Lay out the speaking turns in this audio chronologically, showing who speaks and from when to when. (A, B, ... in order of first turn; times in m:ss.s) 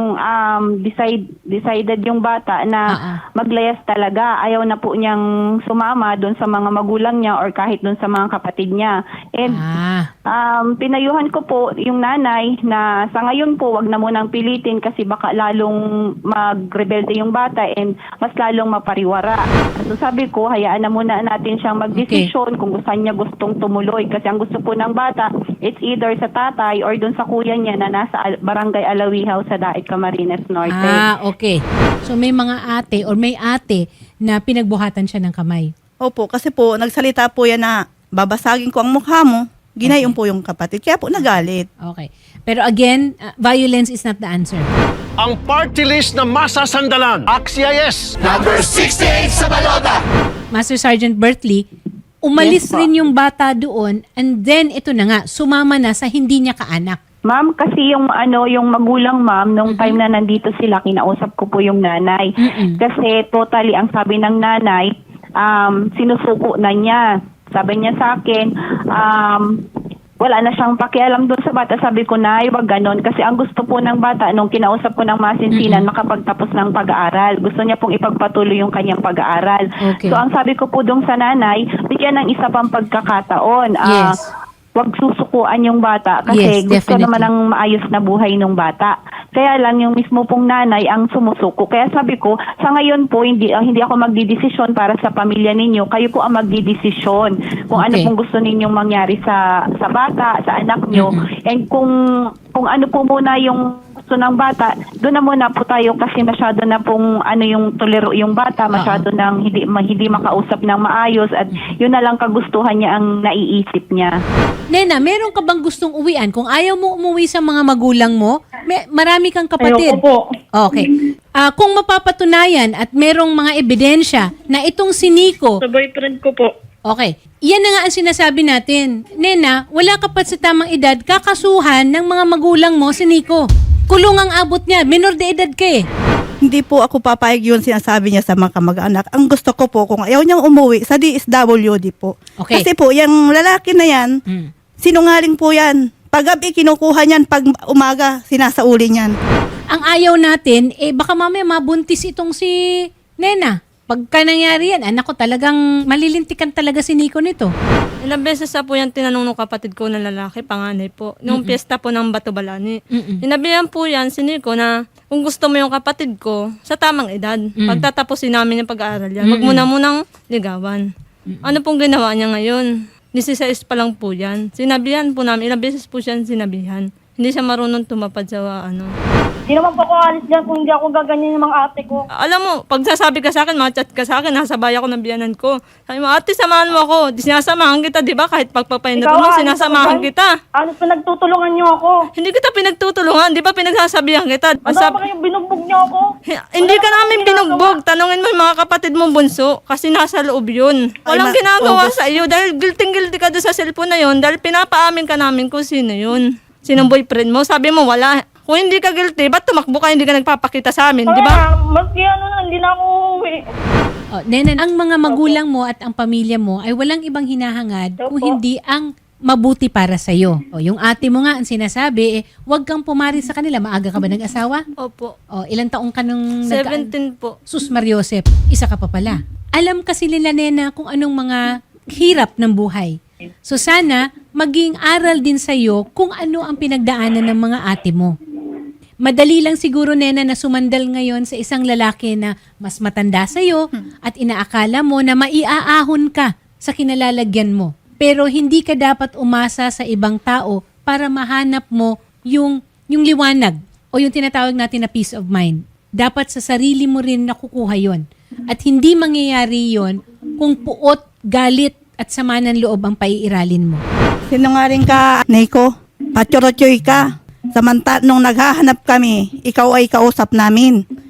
0:00.2-0:02.8 A
0:02.9-0:03.2 B
0:03.4-0:09.6 A
0:09.5-0:10.1 B
0:10.3-0:15.8 A
0:16.3-0:31.0 A
0:21.9-0:22.2 B
0:30.7-0:35.7 B
0:36.0-0:41.7 C
0:39.8-0:40.2 B
0:41.9-0:44.7 B
0:45.2-0:49.9 D
0:50.5-0:51.7 B
0:52.2-0:57.0 B
0:57.3-1:04.9 A
0:59.7-1:00.0 B
1:02.4-1:02.8 B
1:05.4-1:07.0 A
1:07.6-1:09.5 A
1:10.2-1:24.0 A
1:15.6-1:15.9 B
1:19.8-1:20.2 B
1:23.9-1:24.2 B
1:24.8-1:41.9 A
1:26.3-1:27.3 B
1:37.8-1:38.1 B
1:40.9-1:41.2 B
1:42.6-1:54.1 A
1:48.7-1:49.0 B
1:54.7-2:00.0 B
1:59.6-2:00.2 E
2:00.6-2:00.9 B
2:01.4-2:05.6 B
2:05.6-2:06.5 E
2:06.9-2:15.8 B
2:16.4-2:24.1 C
2:22.4-2:22.6 B
2:24.8-2:29.2 C
2:29.7-2:32.5 B
2:33.2-2:37.5 B
2:38.0-2:50.9 F
2:41.3-2:41.6 B
2:42.9-2:43.2 B
2:47.6-2:47.9 B
2:49.2-2:49.7 B
2:51.3-2:51.6 B
2:51.4-2:58.9 F
2:59.5-3:02.0 E
3:02.2-3:10.3 F
3:09.0-3:12.0 E
3:12.2-3:15.0 F
3:14.6-3:16.1 E
3:16.3-3:31.4 F
3:16.6-3:17.7 E
3:21.1-3:22.0 C
3:31.1-3:33.4 E
3:34.1-3:44.6 B
3:38.0-3:38.3 E
3:44.8-3:45.2 F
3:45.4-3:46.9 B
3:46.5-3:47.4 F
3:47.5-3:51.4 B
3:52.0-3:53.0 B
3:53.5-3:58.1 B
3:59.0-4:23.8 B
4:24.3-4:30.8 C